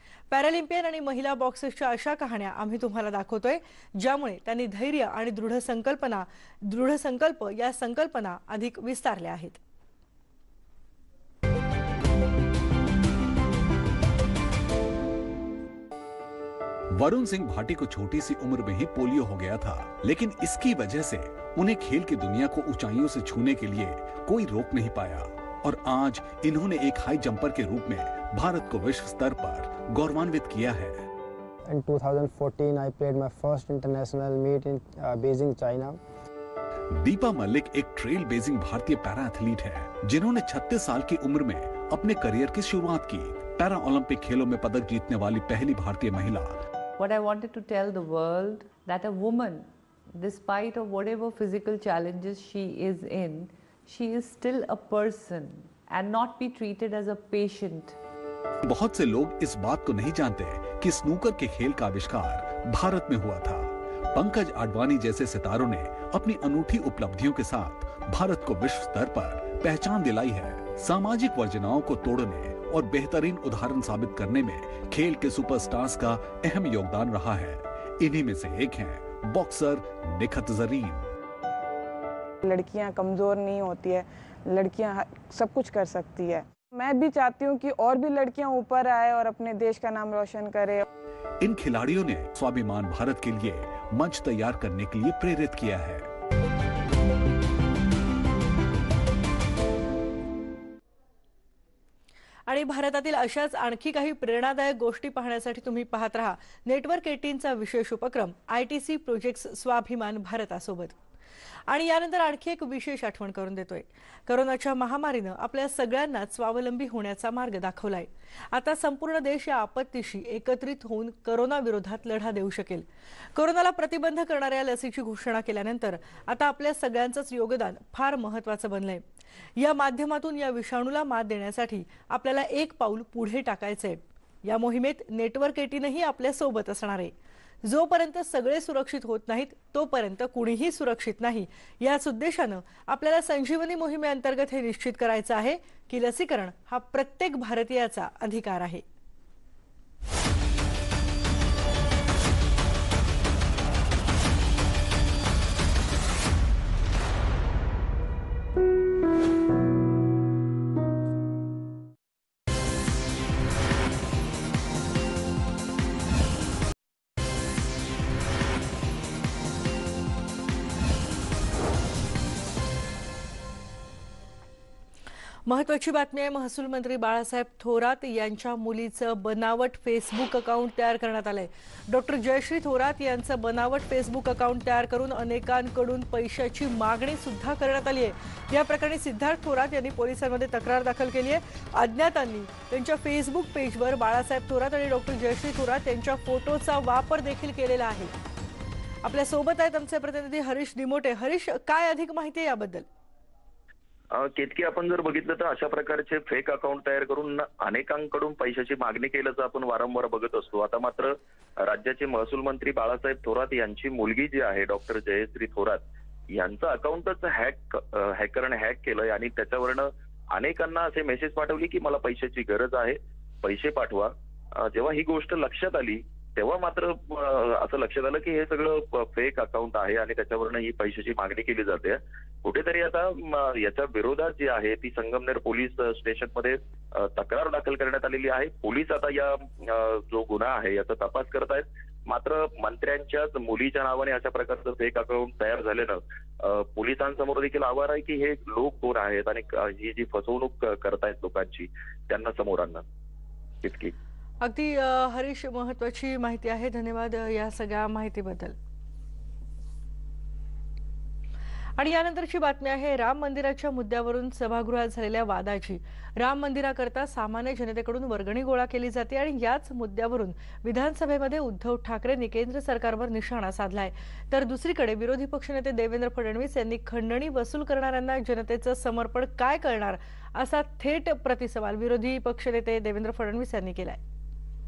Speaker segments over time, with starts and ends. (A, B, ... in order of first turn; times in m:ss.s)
0:00.3-0:09.6 A
0:16.9-0:31.0 B
0:31.7-0:36.0 C
0:36.9-0:46.6 B
0:47.0-0:58.0 D
0:58.6-1:21.1 B
1:22.4-1:30.8 E
1:31.4-1:36.1 B
1:42.5-1:51.0 A
1:51.7-2:09.0 A
2:09.6-2:17.1 A
2:17.6-2:28.8 A
2:55.5-3:18.1 A
3:19.0-3:22.8 A
3:24.1-4:12.8 F
4:13.6-4:13.9 F
4:14.4-4:18.6 A
4:21.8-4:44.0 A